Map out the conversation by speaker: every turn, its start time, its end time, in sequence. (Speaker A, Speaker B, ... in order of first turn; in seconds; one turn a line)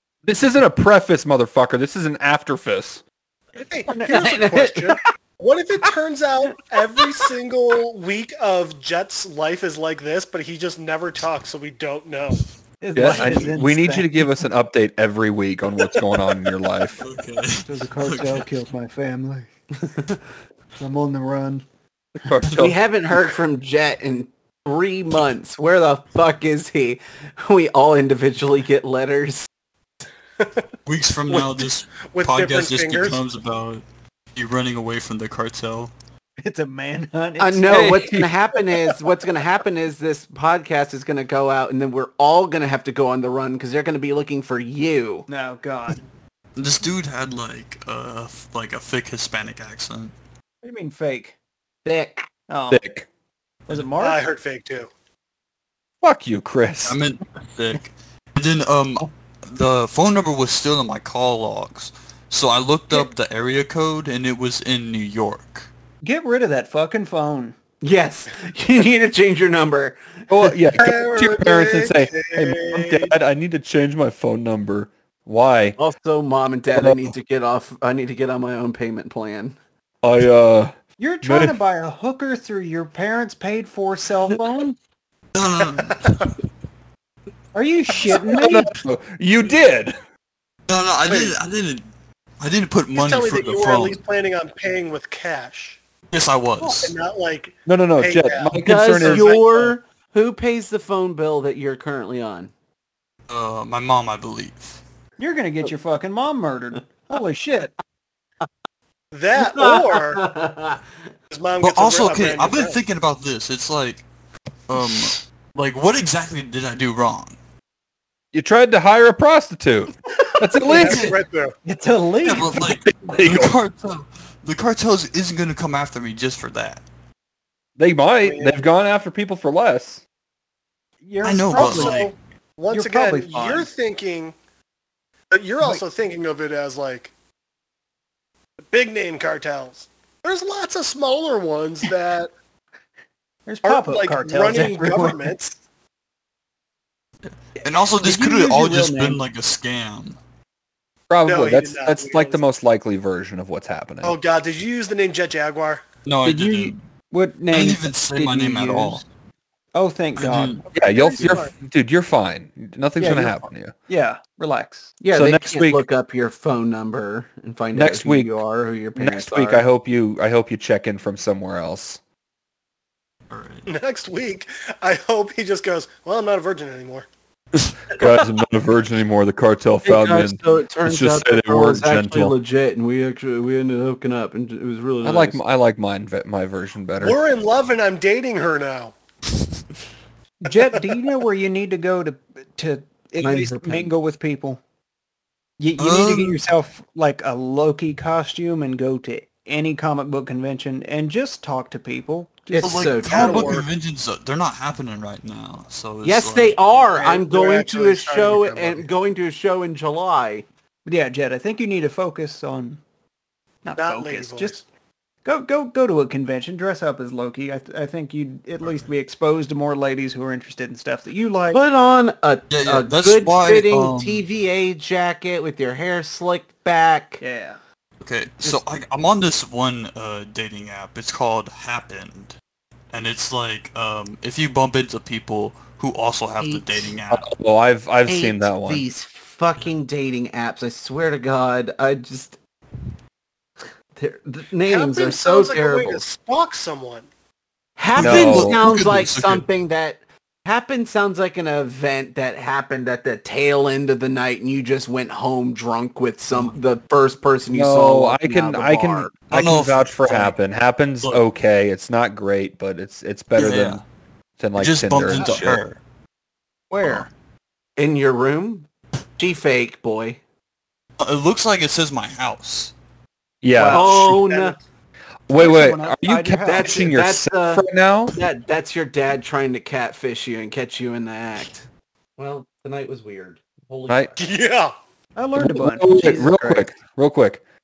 Speaker A: 0.2-3.0
Speaker B: 3.5-12.4
Speaker C: 3.9-4.3
Speaker D: 4.0-5.0
Speaker D: 6.7-7.2
Speaker C: 12.8-14.1
Speaker A: 12.9-17.0
Speaker E: 17.0-18.4
Speaker C: 17.6-20.1
Speaker C: 20.8-21.6
Speaker A: 22.2-22.8
Speaker D: 22.5-29.5
Speaker B: 30.4-30.6
Speaker E: 30.9-33.8
Speaker B: 31.3-33.2
Speaker E: 34.3-35.9
Speaker C: 36.4-38.1
Speaker D: 37.4-45.2
Speaker A: 37.7-38.3
Speaker C: 45.3-46.0
Speaker E: 46.5-50.1
Speaker C: 50.6-51.3
Speaker D: 51.8-52.3
Speaker C: 52.5-52.8
Speaker A: 52.7-53.1
Speaker C: 53.7-54.2
Speaker B: 54.0-54.9
Speaker A: 56.0-57.0
Speaker E: 56.9-65.7
Speaker C: 66.0-67.5
Speaker D: 67.8-70.0
Speaker A: 70.3-75.8
Speaker B: 70.8-73.1
Speaker D: 75.8-79.5
Speaker A: 76.7-77.1
Speaker A: 80.0-81.6
Speaker C: 81.0-84.8
Speaker E: 85.3-86.3
Speaker C: 87.5-88.7
Speaker A: 88.1-90.0
Speaker E: 90.7-91.9
Speaker B: 91.1-91.3
Speaker E: 92.4-94.0
Speaker B: 92.9-95.8
Speaker E: 96.1-97.0
Speaker B: 96.7-99.7
Speaker A: 97.7-99.6
Speaker D: 98.6-102.5
Speaker E: 103.3-104.8
Speaker C: 105.2-107.7
Speaker B: 109.1-110.2
Speaker D: 109.3-110.9
Speaker B: 111.3-112.8
Speaker E: 111.6-114.0
Speaker E: 114.7-117.4
Speaker A: 118.3-121.1
Speaker B: 120.6-121.5
Speaker E: 120.8-121.1
Speaker C: 121.6-122.6
Speaker E: 122.2-126.8
Speaker A: 122.5-123.5
Speaker A: 127.8-130.0
Speaker B: 128.2-128.6
Speaker C: 131.0-132.1
Speaker E: 131.2-132.2
Speaker B: 131.5-134.3
Speaker C: 132.7-133.7
Speaker B: 135.3-137.1
Speaker B: 138.7-142.3
Speaker C: 143.5-145.3
Speaker B: 143.6-145.6
Speaker E: 147.2-150.2
Speaker C: 147.6-149.2
Speaker A: 151.1-154.2
Speaker B: 151.2-152.4
Speaker B: 154.0-155.8
Speaker E: 156.0-156.8
Speaker C: 156.2-159.0
Speaker D: 156.3-156.7
Speaker E: 157.5-159.0
Speaker C: 159.7-160.7
Speaker E: 160.2-160.6
Speaker A: 160.7-163.7
Speaker B: 160.7-161.5
Speaker C: 163.0-165.0
Speaker D: 165.0-169.6
Speaker A: 165.1-165.8
Speaker A: 167.7-168.4
Speaker A: 168.9-172.0
Speaker E: 173.3-173.7
Speaker B: 173.7-177.1
Speaker A: 177.8-182.3
Speaker D: 179.8-185.4
Speaker A: 185.0-187.2
Speaker B: 187.0-188.9
Speaker C: 190.4-194.6
Speaker D: 193.2-193.9
Speaker C: 195.6-202.9
Speaker E: 195.8-196.4
Speaker D: 202.5-203.5
Speaker E: 202.6-206.6
Speaker B: 203.0-203.7
Speaker D: 206.0-210.4
Speaker B: 206.9-208.9
Speaker C: 210.9-212.8
Speaker C: 213.6-214.6
Speaker B: 213.8-214.6
Speaker C: 215.2-221.6
Speaker D: 221.5-227.2
Speaker E: 222.5-224.2
Speaker C: 227.2-227.6
Speaker E: 228.0-232.3
Speaker E: 232.9-237.3
Speaker D: 236.4-236.9
Speaker A: 237.1-238.8
Speaker D: 238.1-242.4
Speaker D: 243.9-246.0
Speaker B: 244.6-247.1
Speaker D: 247.8-259.1
Speaker E: 247.9-249.4
Speaker A: 248.0-248.6
Speaker A: 257.5-263.8
Speaker E: 259.3-260.3
Speaker E: 263.3-263.8
Speaker A: 264.4-265.6
Speaker E: 264.6-265.8
Speaker C: 266.7-267.1
Speaker D: 267.8-270.2
Speaker E: 271.0-272.7
Speaker A: 273.4-274.1
Speaker D: 273.6-274.6
Speaker C: 273.6-274.5
Speaker A: 275.3-278.2
Speaker C: 275.3-276.8
Speaker D: 276.4-281.6
Speaker D: 282.2-284.2
Speaker B: 284.2-284.7
Speaker C: 285.1-286.7
Speaker A: 285.3-287.4